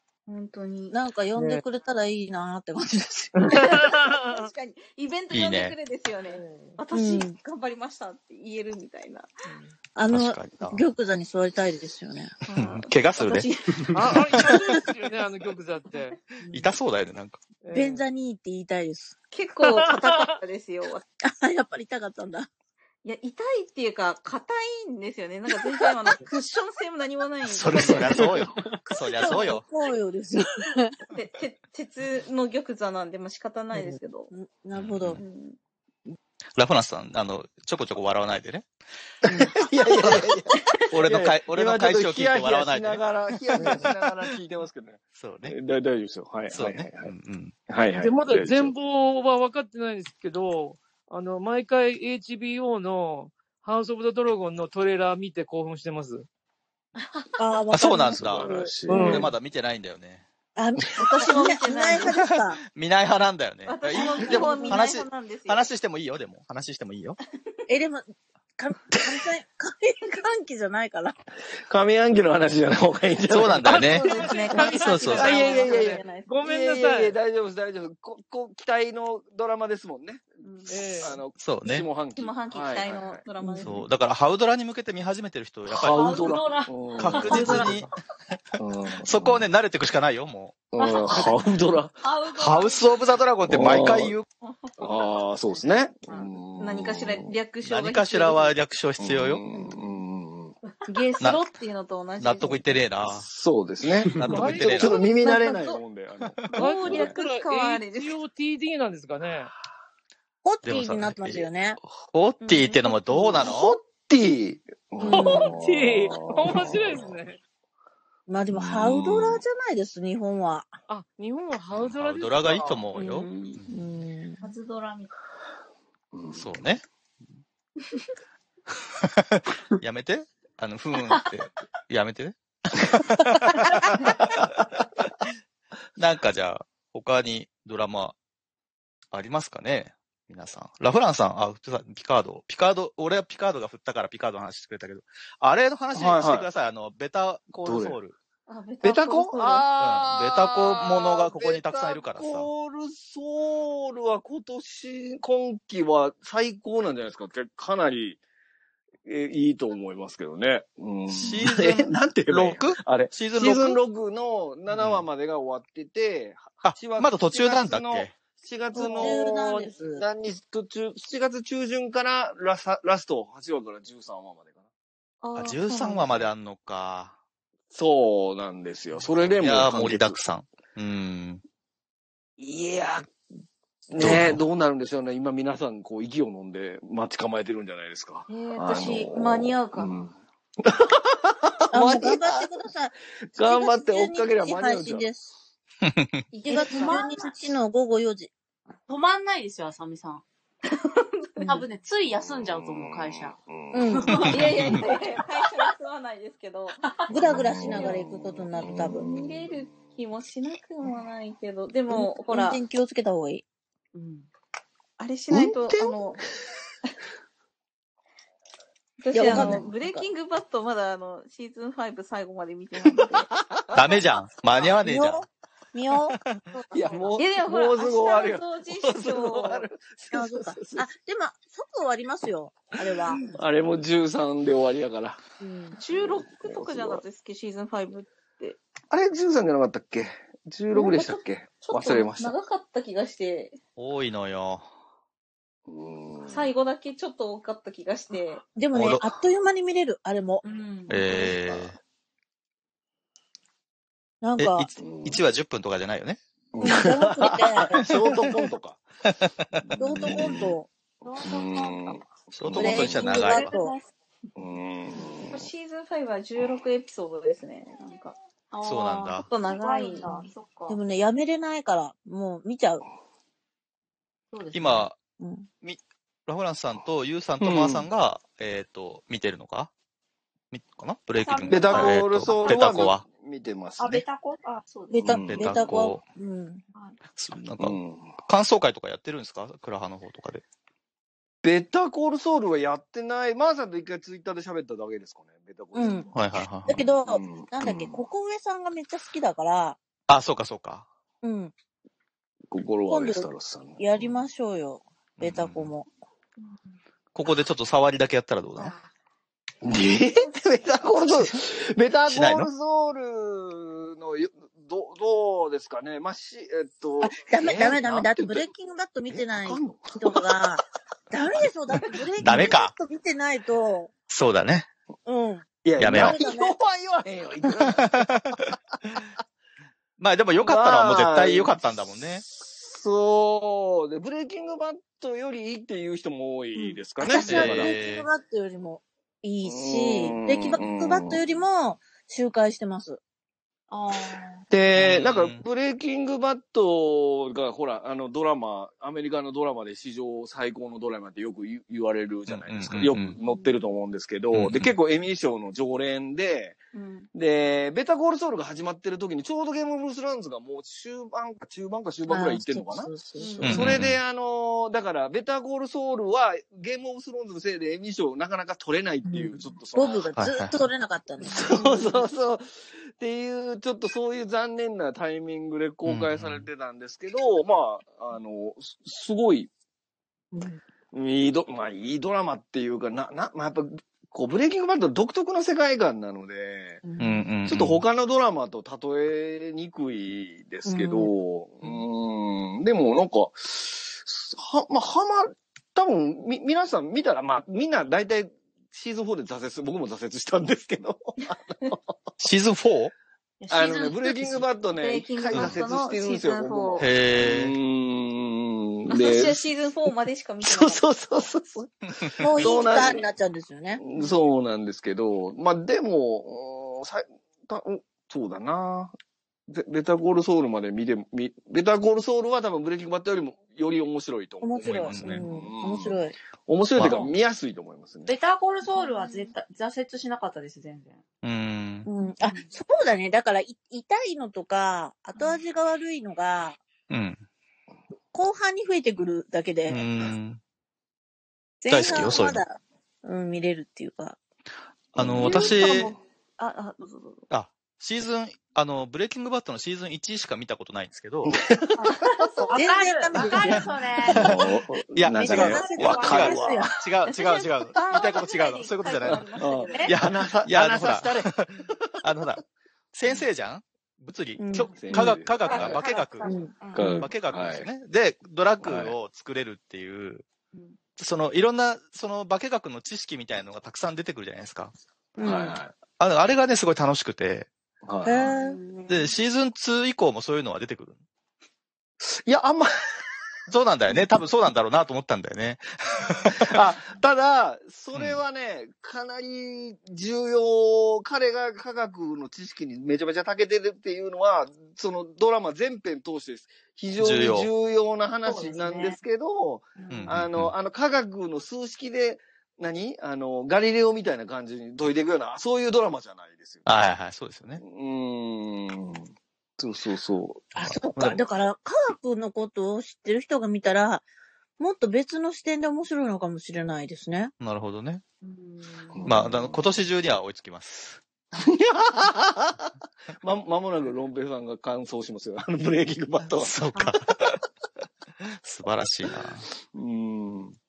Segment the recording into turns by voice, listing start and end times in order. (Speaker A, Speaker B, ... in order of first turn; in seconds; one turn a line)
Speaker A: 0.3-1.0
Speaker B: 0.9-3.8
Speaker C: 3.4-4.5
Speaker A: 3.5-9.3
Speaker D: 5.3-5.7
Speaker C: 6.3-6.8
Speaker B: 6.9-7.4
Speaker B: 9.9-12.3
Speaker D: 10.1-10.8
Speaker A: 12.4-14.6
Speaker D: 12.6-13.5
Speaker C: 13.9-16.2
Speaker B: 16.4-16.7
Speaker D: 16.5-17.4
Speaker C: 17.6-18.0
Speaker B: 17.7-19.1
Speaker A: 19.3-21.0
Speaker C: 19.6-20.4
Speaker B: 21.2-22.5
Speaker A: 23.0-28.5
Speaker D: 27.4-29.7
Speaker B: 29.1-31.1
Speaker A: 29.2-29.4
Speaker A: 31.1-34.3
Speaker B: 33.7-35.2
Speaker D: 34.7-35.2
Speaker A: 35.2-35.6
Speaker D: 36.6-38.7
Speaker E: 39.2-47.1
Speaker D: 40.9-43.0
Speaker D: 45.2-45.5
Speaker D: 46.5-47.5
Speaker E: 47.7-48.7
Speaker C: 48.0-56.3
Speaker A: 57.0-57.4
Speaker B: 57.4-59.1
Speaker D: 57.7-58.5
Speaker E: 58.1-59.3
Speaker C: 58.9-59.3
Speaker D: 59.0-60.2
Speaker B: 60.5-62.6
Speaker E: 60.8-61.0
Speaker A: 61.0-62.3
Speaker D: 62.6-67.2
Speaker A: 63.6-65.7
Speaker B: 63.9-64.9
Speaker B: 67.7-71.2
Speaker E: 68.9-69.2
Speaker E: 71.7-74.0
Speaker D: 73.3-74.1
Speaker C: 73.7-77.2
Speaker A: 73.7-76.4
Speaker D: 74.6-75.4
Speaker E: 75.2-80.4
Speaker A: 80.4-81.1
Speaker C: 80.7-81.2
Speaker E: 81.0-83.2
Speaker D: 81.4-81.9
Speaker A: 82.2-83.8
Speaker B: 83.4-83.8
Speaker D: 83.6-86.1
Speaker E: 85.7-87.8
Speaker F: 85.8-87.8
Speaker D: 87.0-87.9
Speaker A: 87.2-87.7
Speaker E: 88.6-89.5
Speaker D: 89.0-90.5
Speaker E: 90.7-92.0
Speaker F: 90.8-91.5
Speaker F: 92.0-92.8
Speaker D: 92.3-94.2
Speaker E: 93.5-94.2
Speaker A: 94.4-95.3
Speaker E: 94.8-97.3
Speaker A: 96.6-98.5
Speaker D: 97.6-99.4
Speaker E: 99.0-100.5
Speaker A: 100.8-102.6
Speaker D: 102.2-103.3
Speaker E: 103.0-107.2
Speaker D: 104.1-105.0
Speaker C: 104.2-105.0
Speaker A: 104.8-105.8
Speaker A: 106.5-108.2
Speaker C: 106.5-109.5
Speaker B: 110.4-111.8
Speaker D: 110.6-113.8
Speaker A: 112.4-113.5
Speaker E: 113.3-117.2
Speaker B: 115.0-115.5
Speaker C: 115.0-117.4
Speaker B: 118.3-120.7
Speaker E: 118.5-119.4
Speaker C: 120.9-122.9
Speaker D: 121.7-123.8
Speaker A: 122.9-123.6
Speaker B: 123.6-124.5
Speaker A: 124.4-125.1
Speaker E: 126.1-126.5
Speaker D: 126.3-126.8
Speaker D: 129.0-134.4
Speaker E: 134.3-134.6
Speaker D: 136.0-138.1
Speaker D: 139.1-148.2
Speaker E: 145.9-146.5
Speaker E: 147.6-148.0
Speaker A: 148.5-149.7
Speaker E: 148.8-158.2
Speaker D: 149.8-152.5
Speaker E: 159.0-174.6
Speaker D: 161.1-163.8
Speaker D: 164.7-165.1
Speaker D: 166.6-168.2
Speaker B: 168.7-170.0
Speaker A: 168.8-169.1
Speaker A: 175.2-176.2
Speaker D: 175.3-177.2
Speaker E: 177.7-180.2
Speaker D: 179.3-181.4
Speaker E: 182.4-183.1
Speaker E: 183.9-192.6
Speaker D: 184.0-184.4
Speaker F: 188.3-189.1
Speaker A: 188.3-189.9
Speaker B: 191.7-195.3
Speaker E: 193.2-195.1
Speaker D: 195.8-196.2
Speaker A: 196.3-197.2
Speaker F: 196.5-197.5
Speaker B: 196.5-198.3
Speaker F: 198.9-200.2
Speaker A: 200.7-201.6
Speaker B: 201.4-201.6
Speaker F: 201.4-203.4
Speaker E: 202.1-204.8
Speaker B: 203.7-204.3
Speaker F: 203.9-205.7
Speaker A: 204.2-206.9
Speaker F: 206.8-207.9
Speaker B: 207.1-209.0
Speaker E: 207.1-209.8
Speaker A: 208.8-212.6
Speaker B: 211.9-213.4
Speaker F: 213.9-214.3
Speaker A: 215.0-216.2
Speaker E: 215.3-216.4
Speaker A: 219.0-223.3
Speaker B: 219.1-219.8
Speaker E: 219.3-220.0
Speaker E: 222.9-224.0
Speaker D: 223.7-225.3
Speaker B: 224.8-226.2
Speaker E: 226.7-230.9
Speaker A: 227.2-229.7
Speaker B: 230.1-233.2
Speaker E: 232.8-235.2
Speaker B: 235.4-235.8
Speaker E: 235.8-237.0
Speaker A: 235.8-238.6
Speaker E: 238.9-242.3
Speaker A: 240.7-243.6
Speaker D: 243.8-244.7
Speaker E: 245.7-246.5
Speaker A: 246.3-248.4
Speaker B: 248.6-250.4
Speaker D: 248.7-249.1
Speaker F: 250.5-251.0
Speaker D: 250.9-251.8
Speaker B: 254.2-254.7
Speaker D: 254.4-256.2
Speaker E: 254.8-255.2
Speaker E: 256.5-258.8
Speaker B: 256.6-257.9
Speaker D: 257.9-258.1
Speaker D: 259.1-259.5
Speaker E: 259.6-263.0
Speaker B: 259.8-260.7
Speaker F: 261.0-262.1
Speaker D: 262.4-263.5
Speaker B: 262.5-263.8
Speaker F: 262.6-263.8
Speaker E: 264.4-265.5
Speaker A: 265.3-268.1
Speaker F: 268.5-270.8
Speaker D: 268.6-269.3
Speaker A: 269.2-270.3
Speaker B: 270.7-272.8
Speaker F: 274.3-274.9
Speaker D: 274.5-275.0
Speaker B: 275.2-275.5
Speaker D: 275.6-279.7
Speaker E: 277.4-277.9
Speaker D: 280.5-283.0
Speaker F: 281.2-282.8
Speaker E: 281.5-284.0
Speaker F: 283.8-285.0
Speaker B: 284.9-286.6
Speaker E: 285.0-285.6
Speaker D: 285.2-286.0
Speaker D: 287.1-290.4
Speaker E: 287.6-288.1
Speaker E: 291.4-296.2
Speaker B: 295.7-296.1
Speaker D: 296.1-296.8
Speaker B: 296.6-299.8
Speaker E: 297.0-298.0
Speaker D: 300.1-300.9
Speaker B: 301.2-301.5
Speaker E: 302.5-304.2
Speaker B: 302.9-305.9
Speaker D: 305.2-305.7
Speaker D: 307.1-308.7
Speaker E: 309.6-318.5
Speaker D: 312.1-312.5
Speaker B: 317.0-323.9
Speaker E: 319.1-320.4
Speaker E: 321.8-322.5
Speaker D: 322.2-322.7
Speaker D: 324.1-324.7
Speaker B: 325.1-326.6
Speaker E: 325.6-328.1
Speaker D: 325.8-326.2
Speaker D: 327.6-328.4
Speaker D: 330.0-332.2
Speaker E: 330.4-331.6
Speaker E: 332.2-337.8
Speaker B: 336.6-343.0
Speaker D: 337.2-338.1
Speaker E: 339.4-341.4
Speaker F: 343.7-344.4
Speaker E: 344.5-356.6
Speaker D: 344.8-345.4
Speaker D: 352.3-353.2
Speaker F: 353.2-353.5
Speaker D: 354.3-354.7
Speaker A: 356.7-357.1
Speaker E: 357.1-370.2
Speaker B: 362.1-363.7
Speaker A: 363.2-363.6
Speaker D: 363.4-364.0
Speaker B: 369.0-372.0
Speaker D: 370.1-370.6
Speaker E: 371.2-379.5
Speaker D: 375.8-376.5
Speaker B: 380.3-380.6
Speaker E: 380.9-386.8
Speaker B: 386.8-387.3
Speaker D: 387.0-387.8
Speaker E: 387.4-401.8
Speaker B: 390.6-391.1
Speaker D: 402.2-402.9
Speaker F: 403.4-404.4
Speaker E: 403.5-409.4
Speaker A: 404.8-406.9
Speaker D: 405.3-405.6
Speaker D: 406.8-407.5
Speaker A: 408.9-410.8
Speaker E: 410.4-413.1
Speaker B: 412.2-413.8
Speaker E: 413.8-418.9
Speaker E: 419.5-428.1
Speaker B: 424.4-426.1
Speaker D: 424.6-425.2
Speaker F: 426.8-427.1
Speaker F: 428.1-431.0
Speaker D: 431.2-431.9
Speaker B: 431.9-436.6
Speaker F: 432.2-432.5
Speaker D: 436.9-437.2
Speaker B: 438.1-439.8
Speaker D: 439.7-440.4
Speaker B: 441.6-444.2
Speaker D: 441.7-442.4
Speaker D: 444.9-445.9
Speaker E: 444.9-445.9
Speaker A: 445.2-447.2
Speaker D: 447.3-451.4
Speaker E: 451.2-452.2
Speaker A: 451.8-452.6
Speaker F: 452.4-454.2
Speaker B: 452.5-454.4
Speaker E: 454.0-456.8
Speaker D: 454.9-459.2
Speaker B: 455.1-456.7
Speaker F: 455.4-456.6
Speaker A: 457.1-460.0
Speaker E: 459.1-461.3
Speaker D: 459.9-462.4
Speaker D: 462.9-470.2
Speaker B: 464.4-465.2
Speaker E: 464.6-465.8
Speaker F: 465.4-467.0
Speaker B: 466.2-467.1
Speaker E: 466.7-467.7
Speaker E: 468.6-468.9
Speaker D: 471.0-474.7
Speaker B: 475.2-475.6
Speaker E: 475.2-475.7
Speaker D: 476.0-477.5
Speaker E: 477.8-478.4
Speaker B: 478.0-478.9
Speaker F: 478.3-478.6
Speaker D: 478.9-481.0
Speaker E: 482.0-482.7
Speaker D: 483.5-486.6
Speaker E: 486.3-506.6
Speaker D: 487.9-488.2
Speaker D: 497.0-497.5
Speaker F: 498.2-499.0
Speaker D: 499.9-500.5
Speaker D: 506.6-507.6
Speaker E: 507.6-511.1
Speaker B: 510.5-514.0
Speaker D: 510.7-511.2
Speaker B: 514.6-517.3
Speaker D: 517.4-518.0
Speaker F: 518.2-519.1
Speaker E: 518.9-519.7
Speaker D: 519.0-521.0
Speaker E: 521.3-527.4
Speaker D: 526.3-527.1
Speaker D: 528.4-529.5
Speaker E: 529.7-530.5